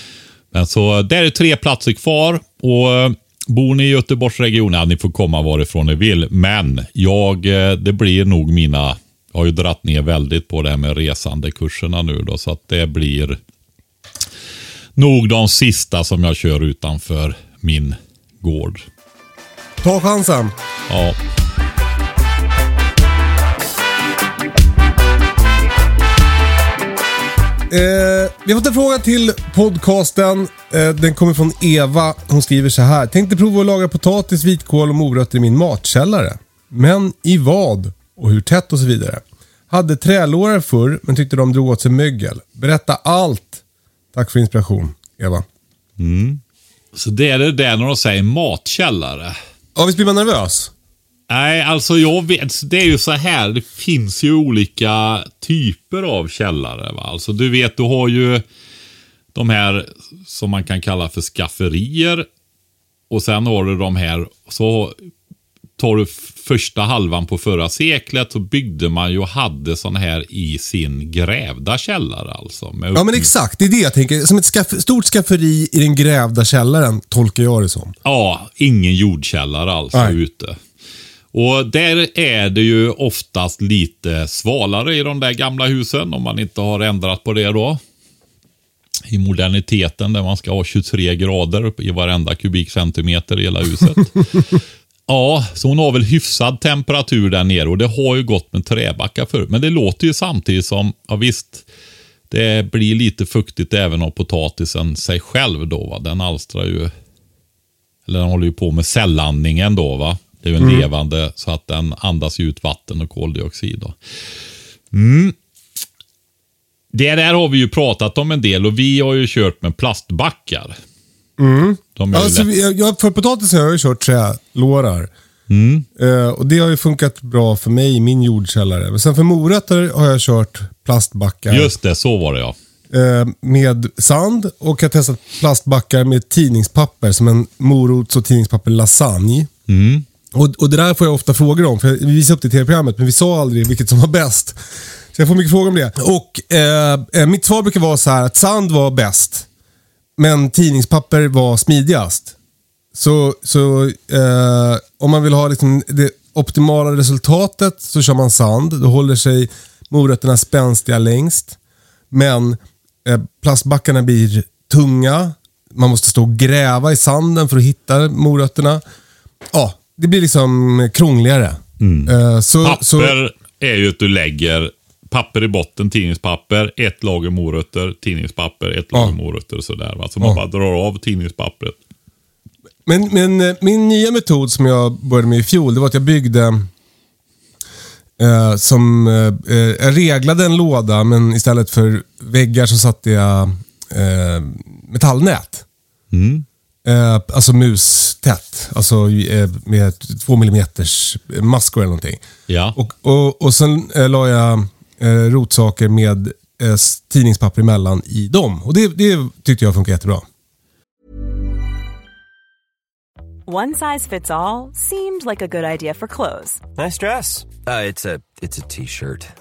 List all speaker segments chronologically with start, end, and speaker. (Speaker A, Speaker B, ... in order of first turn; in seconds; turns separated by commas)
Speaker A: 0.5-13.4, Speaker A: 15.0-18.9, Speaker B: 19.8-20.5, Speaker A: 20.9-21.2, Speaker B: 27.7-43.6, Speaker B: 44.1-45.5, Speaker A: 46.0-46.4, Speaker A: 47.0-49.4, Speaker B: 49.8-50.7, Speaker A: 51.3-58.4, Speaker A: 59.3-62.3, Speaker A: 63.1-65.0, Speaker A: 65.8-73.3, Speaker B: 72.9-78.0, Speaker A: 78.0-80.6, Speaker A: 81.3-87.8, Speaker A: 89.1-94.2, Speaker A: 95.1-101.7, Speaker A: 102.3-106.9, Speaker A: 108.1-114.0, Speaker B: 110.6-110.9, Speaker A: 114.9-115.4, Speaker A: 116.9-120.8, Speaker B: 121.4-125.1, Speaker A: 122.0-122.5, Speaker A: 125.5-125.9, Speaker B: 126.0-131.7, Speaker A: 131.5-132.6, Speaker B: 132.9-139.5, Speaker A: 139.7-140.1, Speaker B: 140.3-149.5, Speaker B: 150.2-152.3, Speaker B: 152.9-161.6, Speaker B: 162.1-168.8, Speaker B: 169.5-173.2, Speaker A: 171.8-181.8, Speaker B: 182.9-186.7, Speaker B: 188.2-195.7, Speaker A: 196.1-196.5, Speaker B: 196.8-202.2, Speaker A: 202.5-202.8, Speaker B: 202.8-210.2, Speaker C: 213.5-216.6, Speaker D: 216.8-219.3